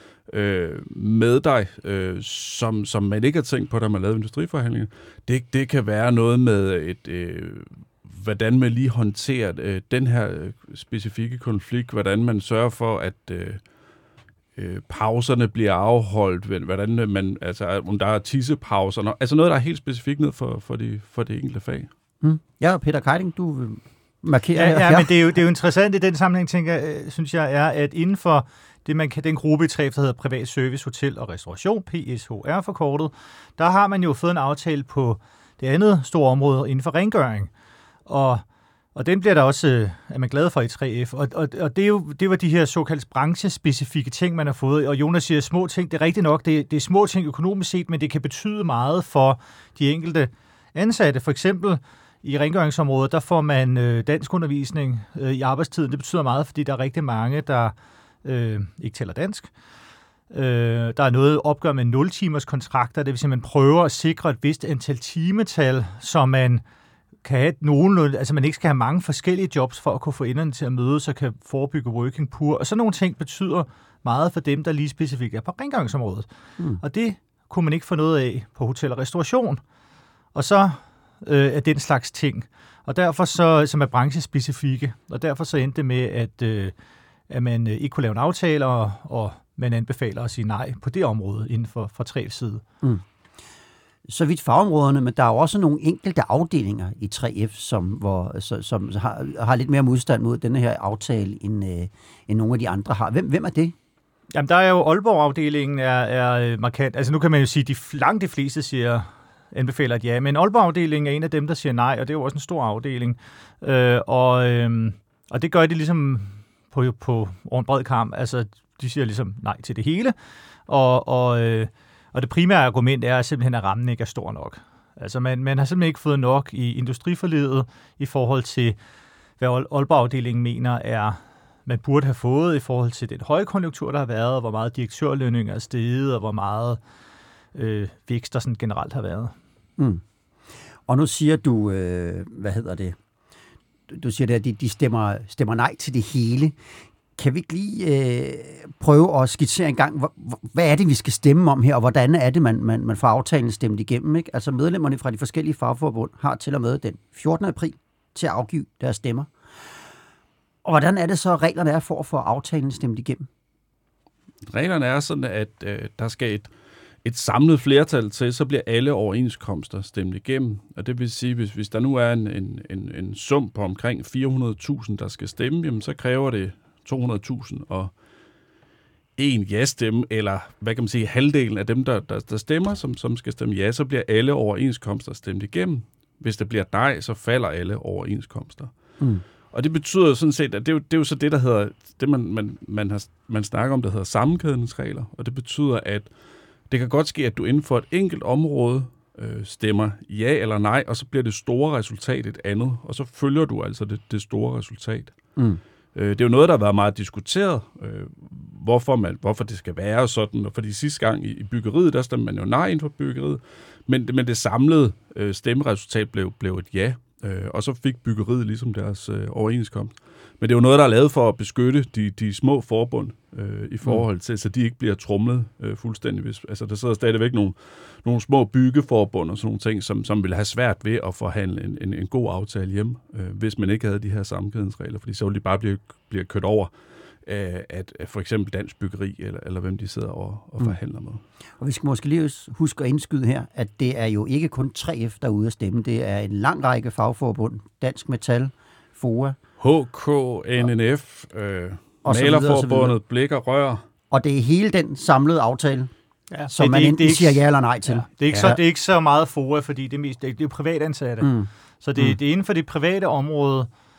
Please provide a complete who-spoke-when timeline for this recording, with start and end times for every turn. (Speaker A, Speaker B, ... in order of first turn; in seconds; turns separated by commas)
Speaker A: 0.3-13.6, Speaker A: 14.6-21.9, Speaker B: 22.2-25.2, Speaker C: 24.5-37.5, Speaker C: 38.1-38.4, Speaker C: 39.0-59.5, Speaker C: 60.3-66.6, Speaker C: 67.2-76.3, Speaker C: 76.8-79.6, Speaker C: 80.3-86.7, Speaker C: 87.3-92.6, Speaker B: 94.1-103.8, Speaker C: 104.3-120.2, Speaker C: 120.7-128.8, Speaker C: 129.4-136.8, Speaker C: 137.6-139.3, Speaker B: 139.8-140.0, Speaker B: 140.9-143.0, Speaker B: 143.9-146.6, Speaker B: 147.2-159.3, Speaker B: 160.6-163.3, Speaker A: 164.5-166.5, Speaker A: 167.0-177.9, Speaker A: 179.2-188.7, Speaker A: 189.5-196.1, Speaker A: 196.7-205.2, Speaker A: 205.9-236.7, Speaker A: 237.2-241.2, Speaker B: 241.6-249.4, Speaker A: 249.6-253.8, Speaker B: 252.0-253.0, Speaker B: 254.1-255.9, Speaker C: 256.3-263.7, Speaker B: 256.5-258.6, Speaker B: 261.2-262.2